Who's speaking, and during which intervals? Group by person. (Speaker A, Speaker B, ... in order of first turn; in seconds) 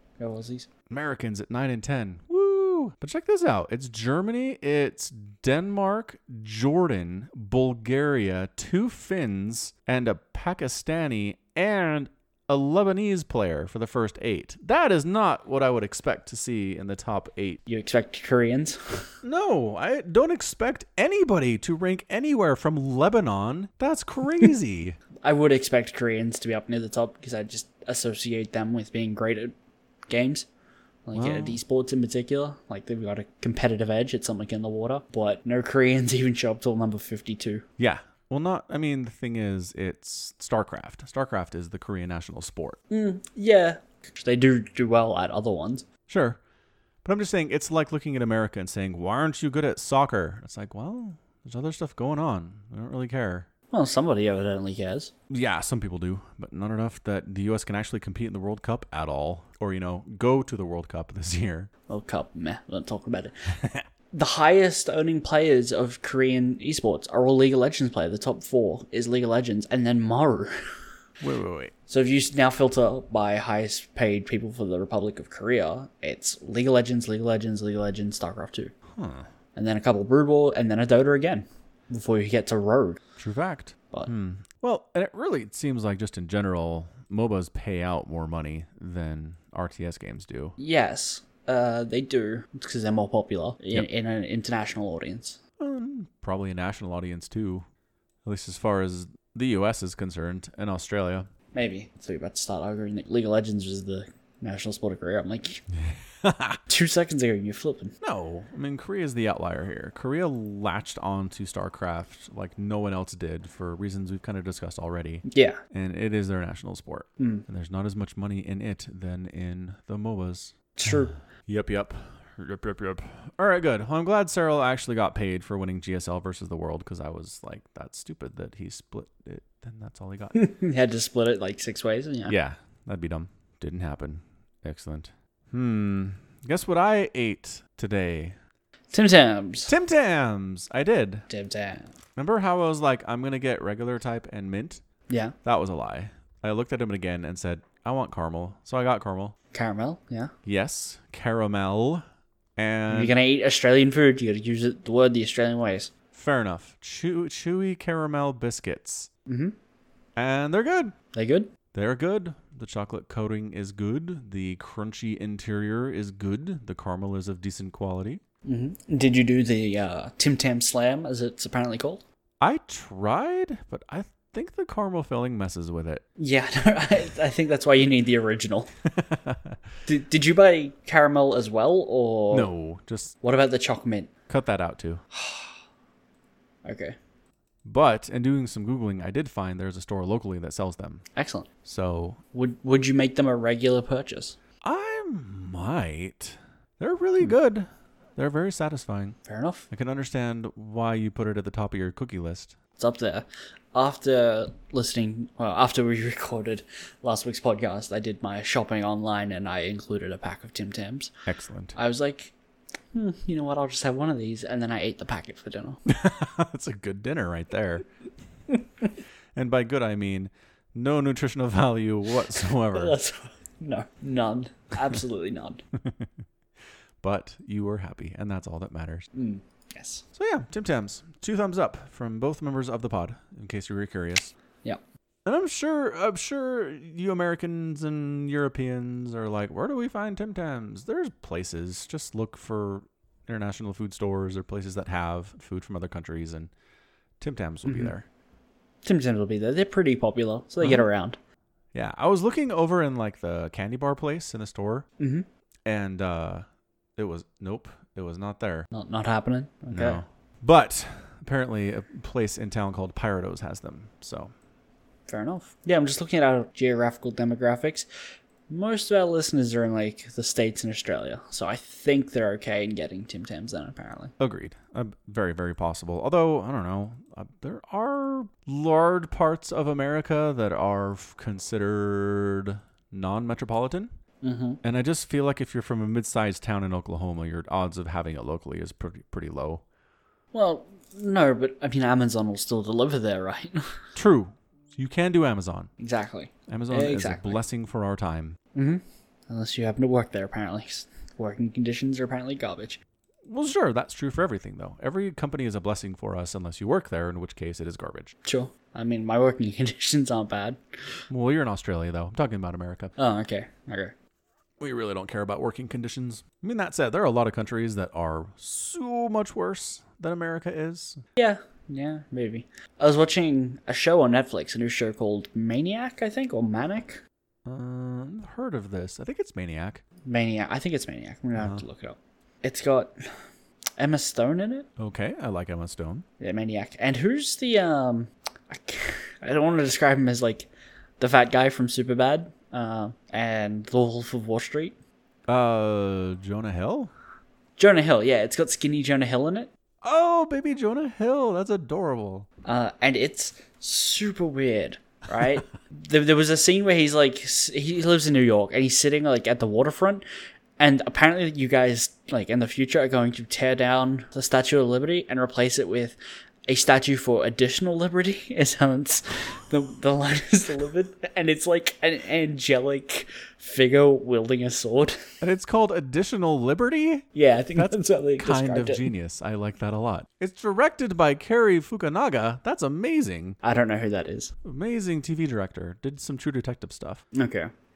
Speaker A: 0.2-0.7, 17.6-19.1, 25.2-29.5, 30.1-30.5, 31.1-37.6, 42.9-45.8, 53.7-55.1, 61.9-63.3, 64.1-70.5, 71.9-78.7, 79.5-83.0, 90.6-95.4, 101.5-105.6, 106.7-107.9, 115.3-115.6, 117.2-117.4, 120.7-121.2, 130.3-132.3, 138.9-139.7, 141.3-141.9, 145.1-145.3, 149.5-150.3, 152.9-155.9, 159.3-159.5, 161.1-161.5, 168.4-172.0, 176.2-178.7, 179.8-182.5, 183.2-184.1, 185.1-185.5, 186.6-186.9, 191.1-191.5, 192.3-194.4, 199.2-199.7, 202.8-211.1, 211.8-212.3, 212.9-215.8, 222.7-225.6, 229.1-230.0, 247.7-247.9, 248.8-251.2, 255.0-255.2, 258.7-260.0, 265.1-267.9, 268.5-274.1, 284.2-284.6, 290.3-293.7, 295.8-297.4, 298.5-302.8, 308.2-310.6, 313.0-313.9, 321.1-327.0, 330.1-332.9, 333.8-334.7, 336.2-344.8, 347.6-349.5, 352.4-360.0, 360.6-375.0, 377.1-378.9, 383.4-384.3, 387.1-387.5
Speaker B: 0.9-17.6, 19.2-25.0, 31.1-31.6, 37.8-42.8, 46.1-46.4, 47.0-53.5, 55.3-61.7, 63.5-63.8, 71.2-71.7, 78.9-79.3, 83.2-90.5, 95.6-97.7, 98.2-101.3, 105.8-106.6, 108.0-120.9, 121.5-130.4, 132.3-138.4, 139.7-141.3, 142.2-144.8, 145.4-149.3, 150.4-152.0, 152.6-153.1, 156.1-159.1, 160.2-160.9, 161.7-168.2, 172.4-176.0, 178.9-179.6, 182.3-183.1, 184.3-185.0, 187.6-191.0, 191.6-192.2, 194.6-199.2, 199.7-202.6, 211.3-211.8, 215.9-217.8, 219.3-223.0, 225.8-226.1, 227.0-229.1, 230.2-234.3, 235.2-246.5, 247.2-248.1, 250.6-250.9, 251.7-254.9, 255.6-256.4, 256.9-258.7, 259.7-264.3, 274.2-283.9, 284.6-289.6, 293.9-295.7, 296.5-298.4, 303.2-308.1, 311.1-312.9, 314.6-321.0, 327.4-329.8, 331.4-331.6, 334.8-336.1, 345.3-346.9, 349.8-352.3, 375.2-383.4, 384.4-387.0